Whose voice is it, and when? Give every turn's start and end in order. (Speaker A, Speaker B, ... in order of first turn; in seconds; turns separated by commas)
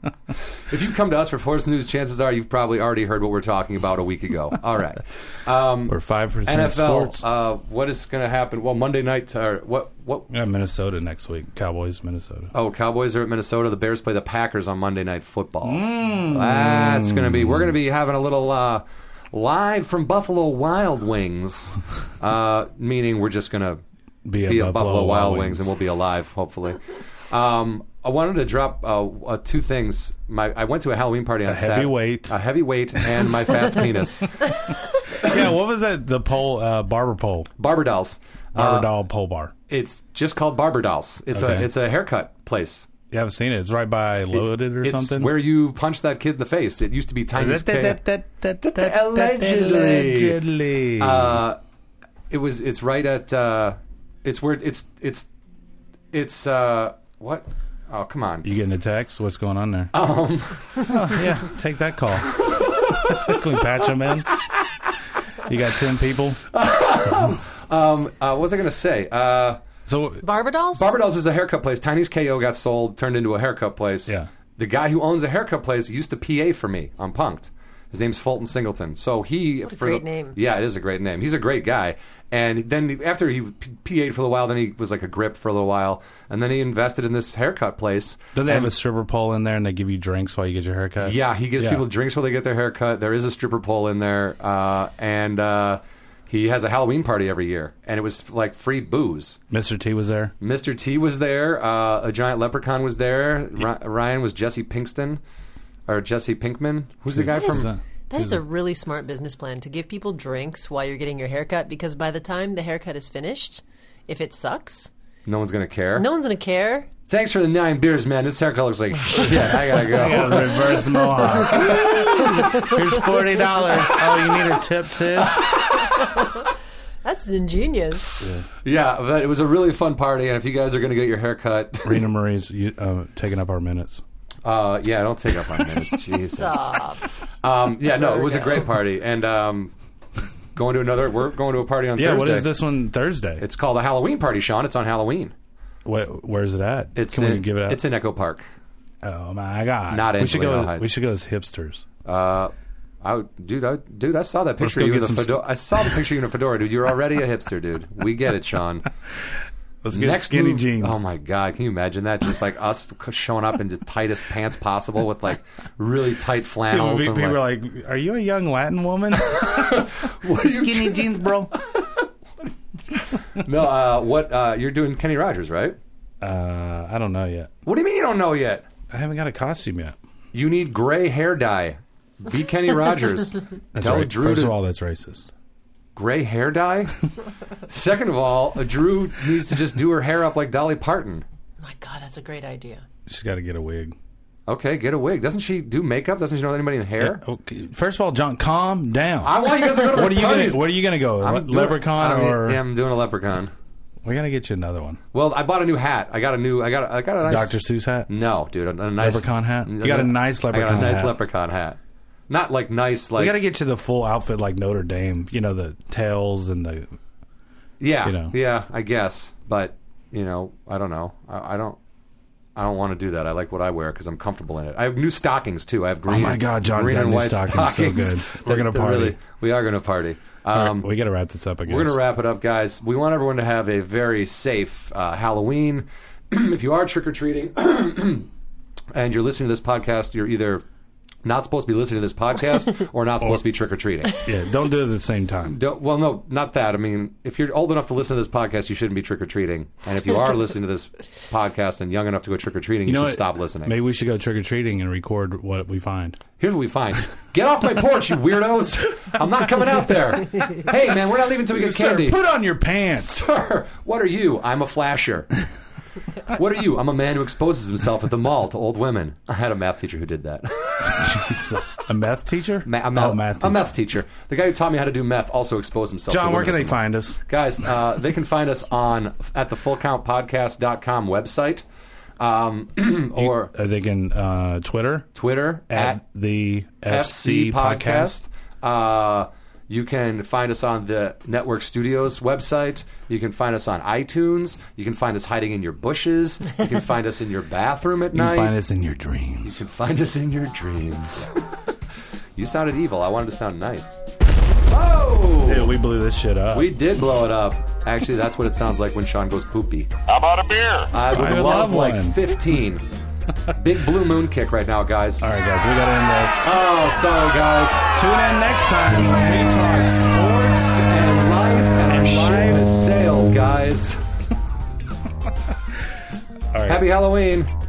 Speaker A: 0.5-10.3, Speaker B: 5.9-7.2, Speaker B: 10.3-12.5, Speaker A: 12.5-23.8, Speaker B: 15.6-17.7, Speaker B: 24.2-25.7, Speaker A: 24.5-35.5, Speaker B: 31.4-32.4, Speaker B: 33.0-33.3, Speaker B: 35.1-37.5, Speaker A: 37.6-38.9, Speaker B: 38.5-39.5, Speaker A: 39.7-42.9, Speaker B: 41.3-41.7, Speaker B: 43.1-45.3, Speaker A: 44.8-48.0, Speaker B: 47.3-51.4, Speaker A: 48.6-50.4, Speaker A: 51.0-51.6, Speaker A: 52.3-55.3, Speaker A: 56.1-58.5, Speaker B: 58.4-59.9, Speaker A: 59.9-61.2, Speaker B: 60.8-64.3, Speaker A: 62.3-63.4, Speaker A: 64.4-64.9, Speaker B: 65.4-66.4, Speaker A: 66.5-69.6, Speaker B: 69.9-70.2, Speaker C: 70.2-70.9, Speaker A: 70.8-88.7, Speaker C: 79.7-80.4, Speaker B: 88.3-91.8, Speaker A: 91.0-99.4, Speaker B: 99.5-100.3, Speaker A: 100.4-105.2, Speaker A: 105.9-107.7, Speaker B: 107.1-108.4, Speaker C: 107.3-114.9, Speaker A: 115.3-116.1, Speaker C: 116.0-116.9, Speaker A: 117.1-122.8, Speaker B: 119.3-125.4, Speaker A: 125.2-126.1, Speaker C: 126.0-126.5, Speaker C: 127.0-128.1, Speaker B: 128.2-128.5, Speaker A: 128.6-132.1, Speaker B: 131.8-134.0, Speaker A: 134.4-136.8, Speaker C: 136.3-137.1, Speaker A: 137.4-139.7, Speaker C: 137.9-138.7, Speaker A: 140.6-142.5, Speaker B: 142.0-143.4, Speaker A: 143.4-145.3, Speaker B: 145.8-147.8, Speaker A: 146.9-148.4, Speaker B: 149.0-151.8, Speaker A: 149.9-150.9, Speaker A: 152.1-158.8, Speaker B: 154.6-155.4, Speaker B: 159.8-161.0, Speaker A: 159.9-167.4, Speaker B: 166.7-171.5, Speaker A: 169.2-175.8, Speaker B: 176.2-177.5, Speaker A: 177.7-178.7, Speaker B: 178.9-180.0, Speaker A: 180.3-184.6, Speaker B: 183.7-185.3, Speaker A: 185.9-187.1, Speaker A: 187.6-191.2, Speaker C: 191.6-192.8, Speaker B: 193.1-194.0, Speaker A: 194.5-197.2, Speaker B: 197.0-202.6, Speaker A: 199.2-200.7, Speaker A: 201.2-203.5, Speaker B: 204.0-205.0, Speaker A: 205.1-211.8, Speaker B: 207.2-208.1, Speaker B: 209.0-211.2, Speaker A: 212.3-213.3, Speaker B: 213.2-217.0, Speaker A: 217.8-221.8, Speaker B: 218.1-218.3, Speaker A: 222.6-230.9, Speaker B: 226.1-229.2, Speaker B: 230.5-232.0, Speaker A: 231.7-238.3, Speaker A: 238.9-240.6, Speaker A: 241.2-244.2, Speaker B: 244.2-245.6, Speaker A: 245.5-253.7, Speaker B: 252.9-256.2, Speaker A: 256.4-262.2, Speaker B: 261.5-263.1, Speaker A: 262.9-265.3, Speaker A: 266.3-271.5, Speaker B: 270.9-273.6, Speaker A: 272.6-281.6, Speaker B: 276.1-277.2, Speaker A: 282.2-283.5, Speaker B: 283.2-285.1, Speaker A: 285.1-286.0, Speaker B: 285.7-288.2, Speaker A: 286.9-298.6, Speaker B: 298.1-299.6, Speaker A: 299.4-301.4, Speaker A: 302.4-304.0, Speaker A: 304.7-305.8, Speaker B: 305.5-306.7, Speaker A: 306.5-309.9, Speaker A: 310.7-312.9, Speaker B: 311.1-312.4, Speaker A: 313.5-315.3, Speaker B: 315.2-316.5, Speaker A: 316.4-317.9, Speaker B: 317.9-320.9, Speaker A: 320.8-324.0, Speaker B: 321.8-322.7, Speaker B: 326.5-326.9, Speaker A: 326.7-327.5